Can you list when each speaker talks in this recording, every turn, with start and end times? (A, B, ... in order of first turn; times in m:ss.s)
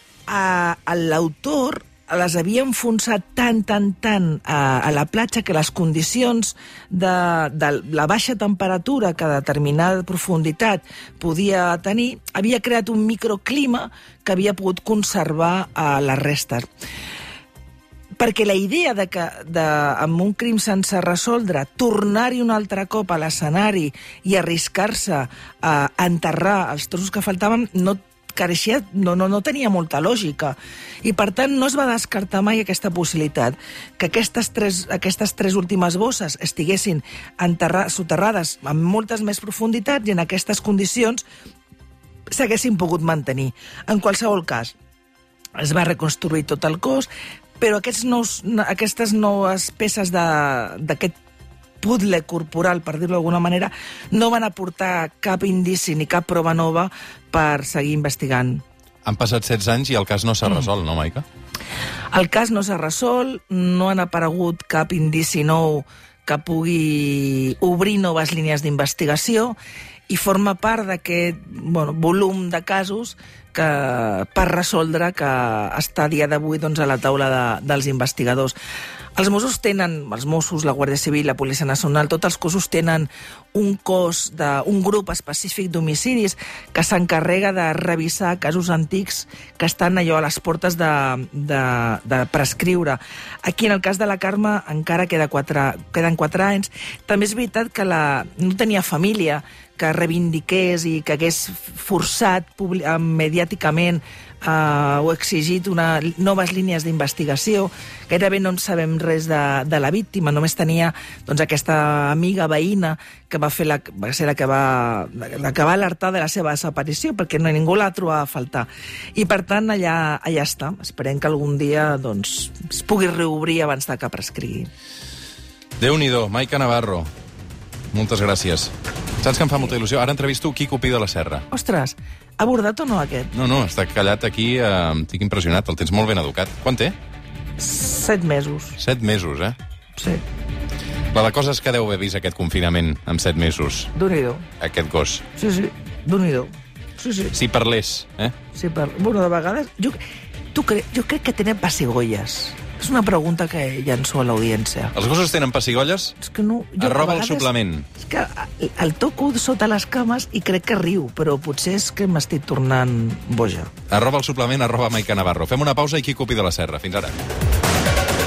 0:00.3-0:16.7 A
0:18.2-0:41.2 A
0:42.3-0:44.7 A
0:45.5-0:51.1 A
0:51.8-0:58.6 A
0:59.0-1:01.2 B
1:02.1-1:09.6 A
1:10.1-1:18.6 A
1:19.2-2:04.7 A
2:05.8-2:07.1 B
2:07.9-2:11.4 B
2:11.5-2:13.3 A
2:13.3-2:16.9 B
2:17.6-2:18.8 A
2:18.8-2:19.6 B
2:20.0-2:20.2 A
2:21.1-2:23.9 B
2:23.9-2:24.5 A
2:24.6-2:25.2 B
2:25.3-2:27.4 A
2:27.3-2:28.3 B
2:28.5-2:30.0 A
2:30.5-2:34.9 A
2:34.9-2:36.2 B
2:36.2-2:43.7 A
2:36.8-2:37.9 B
2:43.9-2:47.2 B